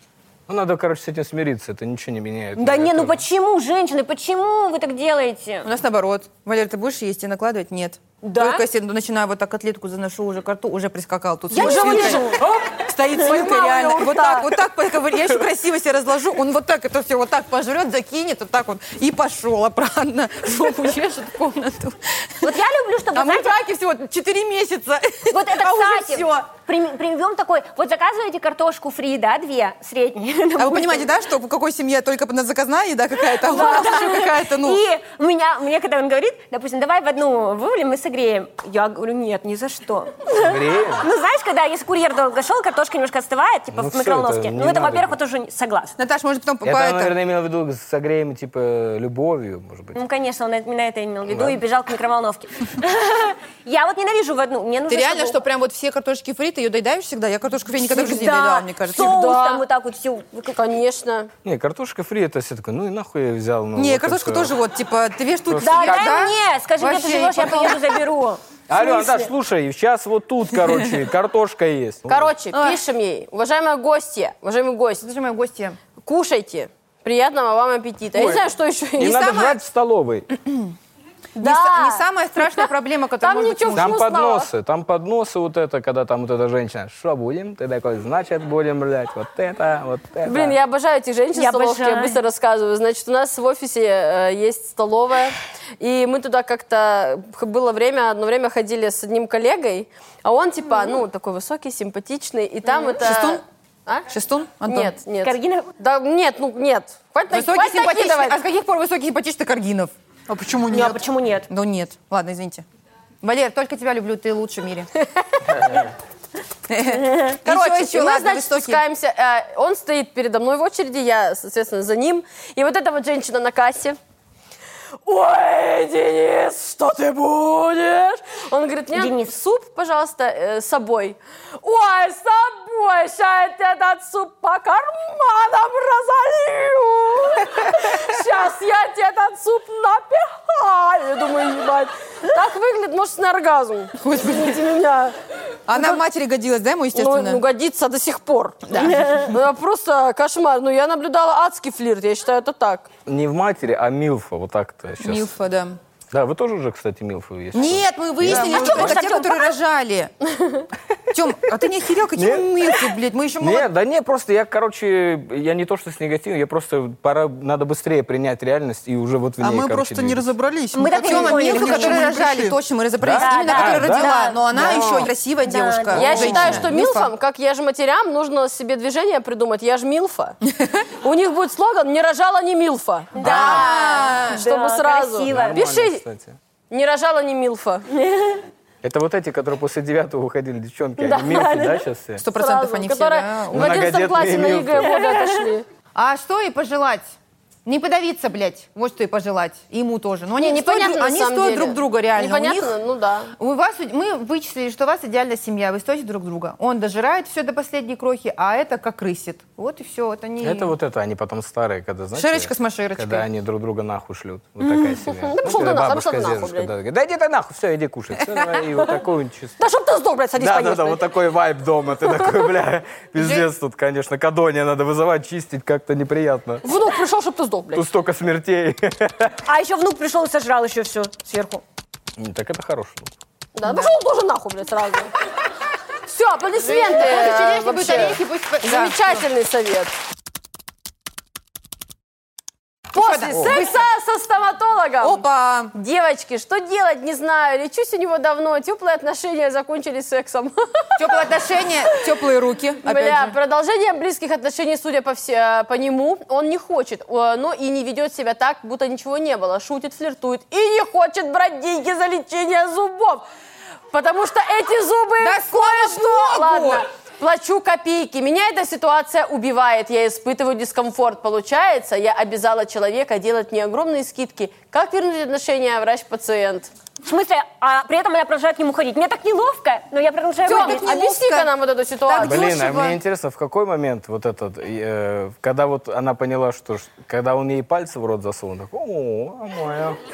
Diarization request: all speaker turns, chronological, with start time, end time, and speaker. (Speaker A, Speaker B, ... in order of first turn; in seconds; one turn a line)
Speaker A: 0.5-3.2
Speaker B: 2.5-5.7
Speaker C: 5.6-22.6
Speaker B: 8.2-8.6
Speaker B: 11.5-12.4
Speaker D: 11.5-14.5
Speaker B: 22.4-23.6
Speaker C: 23.1-26.4
Speaker B: 25.3-31.1
Speaker C: 30.6-34.8
Speaker B: 33.3-45.9
Speaker A: 40.3-41.1
Speaker A: 43.7-45.1
Speaker C: 46.0-47.1
Speaker A: 46.6-50.0
Speaker B: 49.9-55.4
Speaker A: 51.3-51.6
Speaker C: 54.9-59.2
Speaker B: 57.8-60.5
Speaker D: 58.9-59.6
Speaker D: 60.4-61.3
Speaker A: 61.4-64.5
Speaker C: 63.7-68.0
Speaker A: 65.5-66.0
Speaker B: 65.6-69.3
Speaker A: 68.7-72.3
Speaker D: 72.1-75.0
Speaker C: 72.5-72.8
Speaker C: 75.0-75.8
Speaker D: 76.0-79.5
Speaker A: 78.2-78.4
Speaker A: 79.0-80.3
Speaker C: 79.0-79.6
Speaker D: 81.3-82.0
Speaker C: 81.4-84.0
Speaker D: 83.2-84.5
Speaker A: 83.7-90.6
Speaker D: 90.2-104.1
Speaker B: 91.3-92.2
Speaker C: 103.0-103.4
Speaker C: 104.1-104.9
Speaker D: 104.6-108.4
Speaker B: 105.2-105.7
Speaker C: 107.3-109.9
Speaker E: 110.3-111.0
Speaker B: 110.7-111.5
Speaker C: 111.5-112.6
Speaker C: 113.2-114.9
Speaker D: 115.4-115.7
Speaker C: 116.7-118.8
Speaker D: 117.4-124.0
Speaker D: 125.0-145.1
Speaker B: 128.9-129.3
Speaker C: 144.0-144.6
Speaker C: 145.7-147.4
Speaker D: 145.7-146.0
Speaker D: 146.9-152.9
Speaker C: 148.7-149.2
Speaker A: 153.1-155.3
Speaker C: 155.0-155.8
Speaker A: 156.1-159.0
Speaker C: 157.5-160.1
Speaker E: 158.2-158.9
Speaker B: 158.3-159.5
Speaker D: 160.3-160.7
Speaker C: 161.1-163.7
Speaker A: 162.2-162.5
Speaker A: 163.4-170.3
Speaker E: 169.4-172.6
Speaker B: 170.7-172.1
Speaker C: 170.8-177.1
Speaker A: 173.0-174.2
Speaker B: 173.1-176.6
Speaker E: 174.6-175.0
Speaker D: 175.9-180.4
Speaker A: 176.0-176.6
Speaker D: 181.0-186.0
Speaker B: 183.1-185.6
Speaker C: 183.2-184.4
Speaker A: 185.3-186.4
Speaker D: 186.7-187.8
Speaker B: 187.9-188.4
Speaker A: 188.8-192.2
Speaker D: 191.0-191.5
Speaker B: 191.3-191.8
Speaker C: 192.2-193.9
Speaker D: 192.3-195.6
Speaker A: 193.5-195.0
Speaker B: 195.0-195.4
Speaker C: 195.9-197.1
Speaker C: 197.6-202.8
Speaker D: 200.4-203.3
Speaker C: 203.4-210.7
Speaker A: 210.4-219.6
Speaker C: 212.1-213.3
Speaker D: 214.6-216.7
Speaker D: 219.6-221.0
Speaker A: 220.4-226.6
Speaker C: 223.2-223.4
Speaker D: 226.6-227.8
Speaker A: 227.7-229.4
Speaker B: 229.4-231.6
Speaker A: 232.2-233.1
Speaker D: 233.6-235.1
Speaker C: 233.6-233.9
Speaker D: 236.1-239.9
Speaker C: 236.5-239.2
Speaker D: 242.9-251.2
Speaker C: 242.9-243.8
Speaker C: 245.0-245.7
Speaker C: 251.0-253.3
Speaker D: 252.8-263.2
Speaker D: 263.9-276.7
Speaker C: 265.2-266.8
Speaker B: 277.0-280.8
Speaker C: 280.4-283.0
Speaker D: 280.5-282.5
Speaker A: 282.2-290.0